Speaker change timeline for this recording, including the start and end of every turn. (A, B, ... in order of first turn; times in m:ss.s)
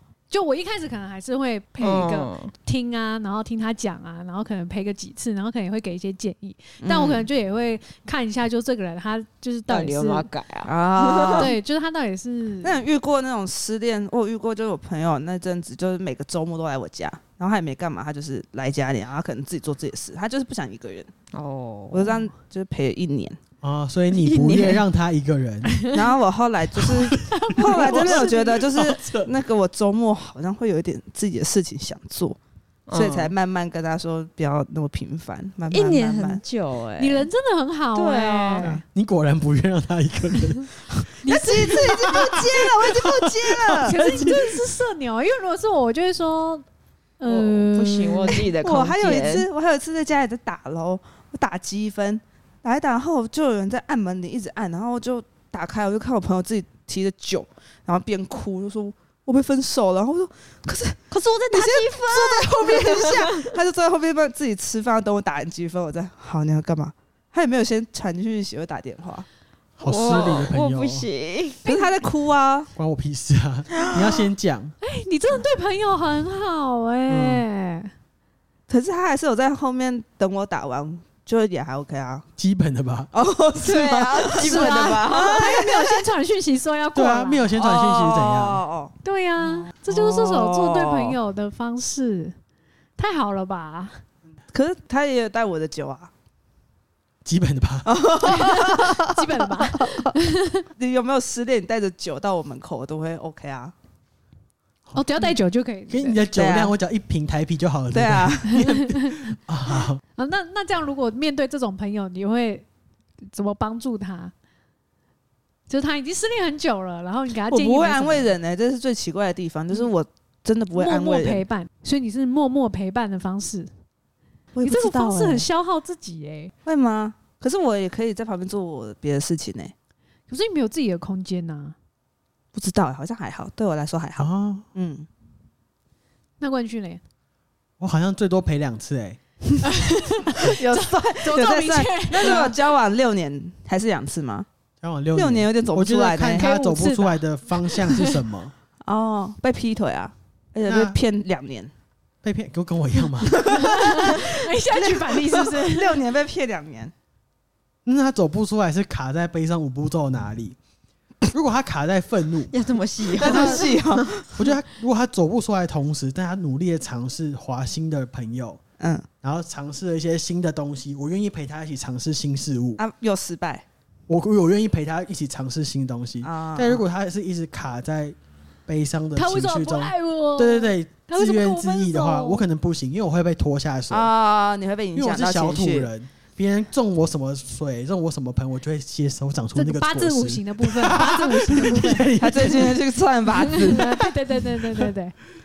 0:00.3-0:10.3 A
0:01.8-0:02.5 B
0:06.8-0:07.2 C
0:09.7-0:11.5 B
0:10.6-0:11.5 C
0:11.3-0:12.8 A
0:12.6-0:21.1 C
0:21.3-0:22.2 B
0:21.9-0:23.4 C
0:23.6-0:25.8 D
0:24.2-0:24.8 B
0:25.9-0:32.4 C
0:26.8-0:29.3 D
0:27.3-0:28.6 A
0:32.9-0:33.3 B
0:32.9-0:36.4 C
0:35.7-0:37.2 B
0:37.0-0:38.8 A
0:37.9-0:38.7 B
0:38.6-0:41.1 D
0:41.2-0:41.8 A
0:41.2-0:44.0 C
0:41.6-0:44.6 D
0:43.8-0:46.6 A
0:47.2-0:48.5 A
0:47.3-0:49.5 B
0:48.6-1:09.2 C
1:01.1-1:03.5 B
1:09.8-1:11.1 D
1:09.8-1:11.6 B
1:11.6-1:12.0 A
1:11.6-1:12.7 C
1:12.8-1:14.7 D
1:14.8-1:17.9 A
1:17.1-1:17.4 D
1:18.7-1:22.2 C
1:22.4-1:23.1 D
1:23.1-1:26.0 C
1:23.6-1:25.6 B
1:24.4-1:27.5 A
1:26.9-1:28.6 D
1:27.6-1:31.2 C
1:29.0-1:32.3 A
1:33.0-1:34.0 A
1:34.5-1:36.1 C
1:37.2-1:37.9 D
1:37.8-1:40.1 C
1:38.2-1:40.6 A
1:40.8-1:43.7 C
1:44.9-1:46.2 A
1:45.9-1:50.0 D
1:46.3-1:46.7 C
1:47.9-1:48.7 C
1:48.5-1:49.1 A
1:50.2-1:52.6 A
1:53.2-1:54.3 A
1:55.7-1:58.3 A
1:57.5-2:01.4 C
2:00.7-2:03.7 A
2:04.5-2:05.4 C
2:04.6-2:06.5 A
2:06.6-2:09.7 C
2:10.3-2:11.7 A
2:12.5-2:15.1 C
2:14.2-2:14.6 D
2:16.4-2:17.0 A
2:17.8-2:19.2 D
2:19.6-2:22.5 A
2:20.3-2:24.5 C
2:24.8-2:28.5 D
2:25.1-2:26.5 C
2:26.4-2:28.2 A
2:28.8-2:31.7 C
2:30.6-2:31.0 D
2:32.2-2:33.6 D
2:33.2-2:36.9 C
2:33.5-2:36.0 A
2:37.8-2:40.6 D
2:41.3-2:42.5 D
2:42.5-2:44.1 B
2:43.2-2:43.8 D
2:43.2-2:44.3 C
2:44.3-2:48.6 D
2:48.8-2:49.1 C
2:49.2-2:52.8 D
2:52.8-2:53.6 C
2:54.1-2:58.2 D
2:56.2-2:56.8 C
2:58.7-3:04.1 D
2:59.2-3:02.4 A
3:03.9-3:05.9 C
3:04.9-3:12.8 D
3:09.6-3:12.1 A
3:12.2-3:13.9 C
3:13.6-3:15.1 A